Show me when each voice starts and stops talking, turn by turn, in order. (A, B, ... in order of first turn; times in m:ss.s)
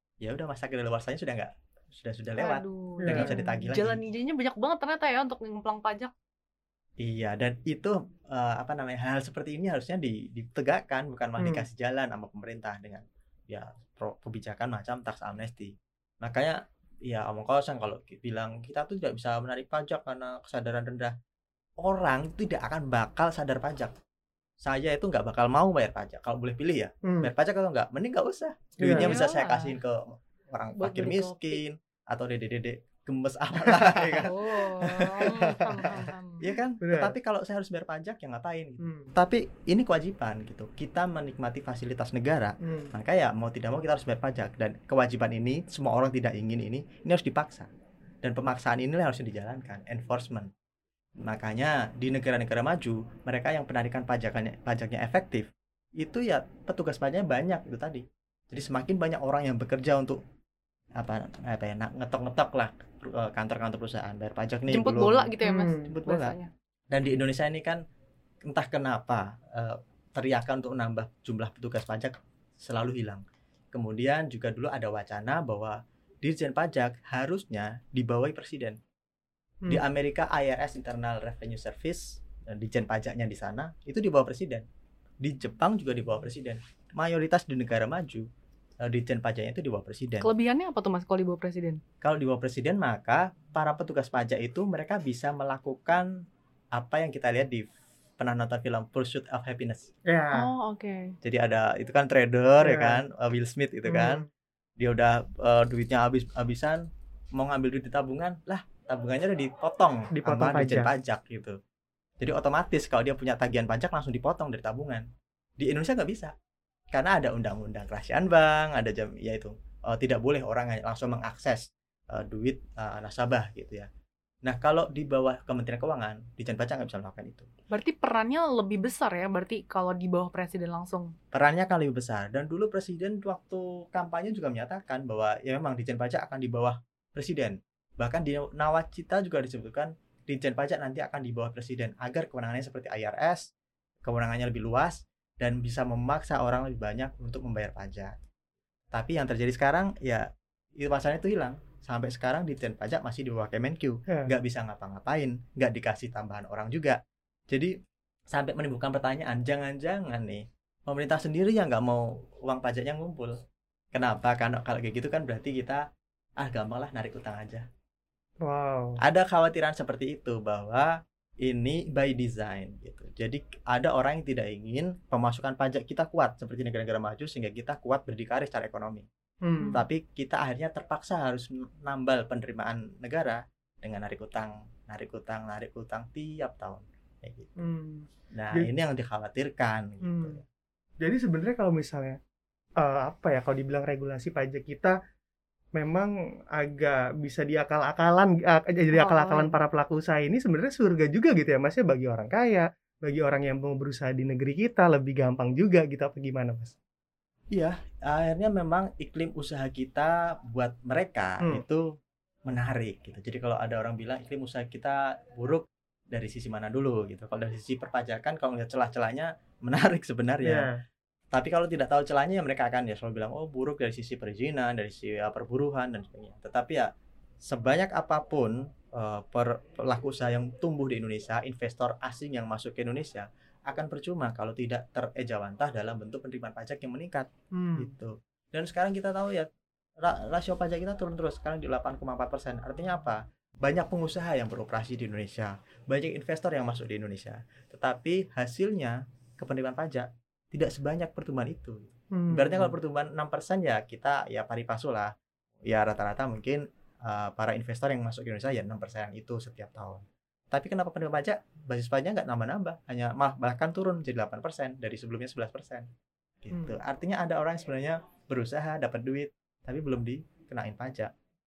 0:00.2-0:04.0 A
0:02.4-0:06.1 B
0:03.0-0:03.3 C
0:07.0-0:21.1 A
0:11.4-0:11.6 C
0:21.8-0:24.0 A
0:24.6-0:47.7 A
0:27.0-0:27.3 C
0:28.8-0:29.1 C
0:28.9-0:29.8 B
0:30.8-0:31.6 B
0:33.7-0:34.3 C
0:34.3-0:36.5 B
0:36.8-0:37.1 C
0:38.8-0:39.1 C
0:42.6-0:42.9 C
0:48.2-0:50.5 A
0:51.2-0:55.5 A
0:56.0-1:00.2 A
1:01.0-1:05.3 A
1:04.7-1:06.5 B
1:05.4-1:05.9 C
1:05.9-1:06.4 A
1:06.9-1:07.8 A
1:08.5-1:18.8 A
1:19.7-1:24.7 A
1:25.2-1:28.3 A
1:28.8-1:30.3 A
1:30.2-1:31.8 B
1:32.0-1:36.1 A
1:36.8-1:37.6 A
1:38.2-1:39.9 A
1:40.1-1:40.5 C
1:40.3-1:41.1 B
1:41.2-1:44.2 A
1:42.6-1:43.0 C
1:43.9-1:44.2 C
1:44.8-1:51.6 A
1:50.1-1:50.9 C
1:52.2-1:55.1 A
1:55.6-1:56.3 A
1:56.9-2:03.9 A
2:04.4-2:07.5 A
2:07.7-2:11.1 B
2:11.3-2:23.4 A
2:24.0-2:28.2 A
2:28.9-2:30.3 A
2:30.8-2:37.0 A
2:38.3-2:43.4 A
2:43.9-2:45.8 A
2:46.4-2:47.6 A
2:48.4-2:49.0 C
2:49.0-2:50.9 A
2:51.4-2:59.1 A
2:59.4-2:59.8 C
2:59.7-3:07.5 A
3:07.6-3:08.7 C
3:08.3-3:10.4 A
3:10.1-3:10.4 C
3:11.0-3:12.2 C
3:12.8-3:15.0 C
3:15.8-3:26.8 C
3:18.9-3:19.5 B
3:27.5-3:31.8 A
3:32.5-3:40.7 A
3:40.4-3:40.8 C
3:41.3-3:46.9 A
3:47.4-3:59.5 A
3:57.6-3:57.9 C
4:00.0-4:15.1 A
4:12.1-4:12.7 C
4:15.7-4:25.9 A
4:26.4-4:31.1 A